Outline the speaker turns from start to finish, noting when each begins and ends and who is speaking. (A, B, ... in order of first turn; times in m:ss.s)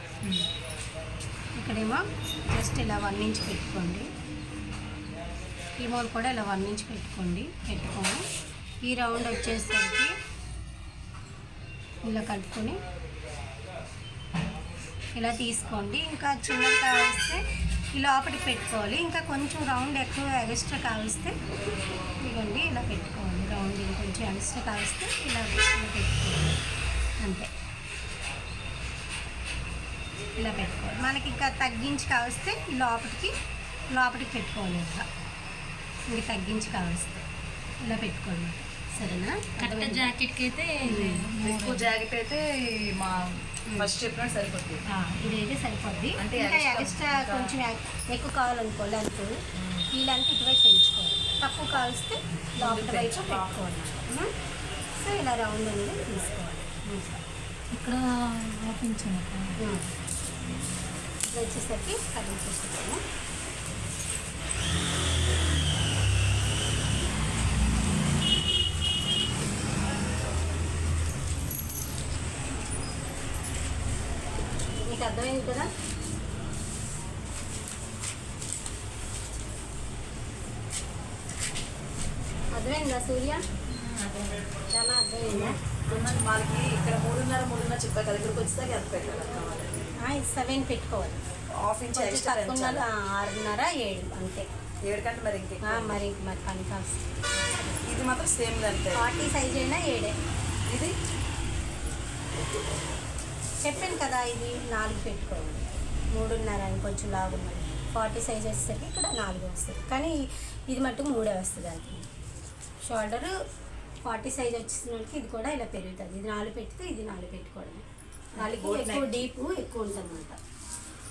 0:00.2-0:00.5 A
0:01.6-0:04.1 A
0:05.8-0:08.3 A
0:08.8-0:10.1 A
0:12.0-0:12.8 A
0:15.2-0:17.4 A
0:17.9-0:21.4 A
0:22.2-0:26.6 A
0:27.2-0:27.5 A
0:30.4-0:33.4 A
0:33.9-0:35.1 A
0:36.1-0:37.2 A
0:37.8-0:40.1 A
0:39.6-0:41.9 B
0:40.8-0:41.2 A
0:41.4-0:44.8 C
0:44.9-0:49.3 A
0:46.2-0:47.5 C
0:49.6-0:49.9 C
0:49.9-0:54.3 A
0:52.6-0:53.5 C
0:55.0-0:57.2 A
0:57.7-0:59.6 B
0:59.6-0:59.9 A
1:01.3-1:03.0 A
1:14.7-1:15.7 A
1:22.5-1:23.4 A
1:23.7-1:24.5 B
1:24.7-1:25.6 A
1:25.3-1:29.8 C
1:25.9-1:26.3 B
1:30.0-1:31.2 A
1:31.6-1:32.8 C
1:31.9-1:34.5 A
1:34.8-1:36.0 C
1:35.6-1:37.9 A
1:37.9-1:39.0 C
1:39.0-1:40.2 A
1:40.7-1:41.0 C
1:43.6-1:52.1 A
1:52.8-1:53.3 A
1:54.0-1:57.8 A
1:58.4-2:00.4 A
1:58.4-1:59.3 C